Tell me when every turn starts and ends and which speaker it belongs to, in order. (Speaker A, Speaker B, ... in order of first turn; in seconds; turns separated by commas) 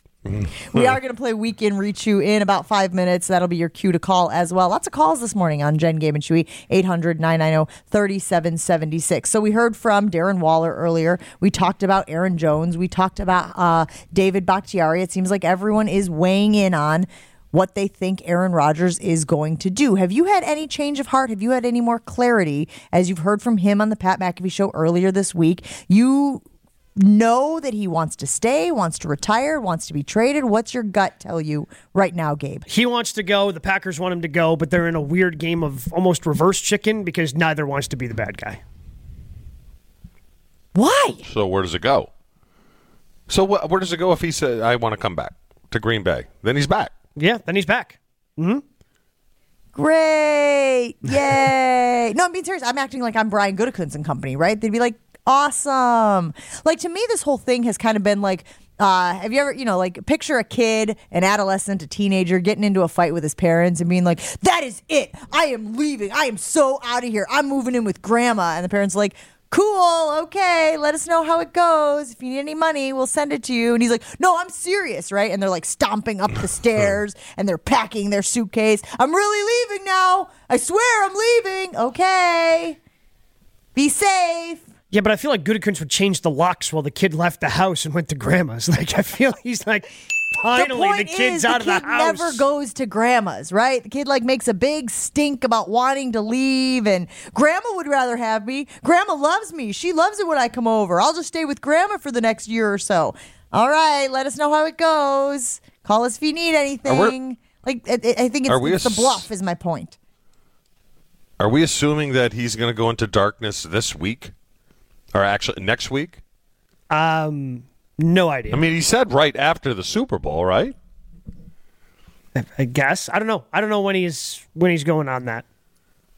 Speaker A: 0.3-1.0, Speaker B: 0.6-26.4, Speaker B: 27.0-32.6, Speaker C: 32.7-38.6, Speaker B: 40.8-41.3, Speaker A: 41.3-42.1, Speaker A: 43.3-46.9, Speaker C: 47.2-48.6, Speaker B: 49.8-82.8, Speaker B: 83.8-84.7, Speaker C: 84.9-92.4, Speaker B: 90.5-110.0, Speaker A: 106.9-107.2, Speaker A: 108.5-109.3, Speaker A: 111.4-114.3, Speaker A: 115.1-116.2, Speaker C: 116.9-118.6, Speaker A: 118.5-120.8, Speaker C: 122.3-125.5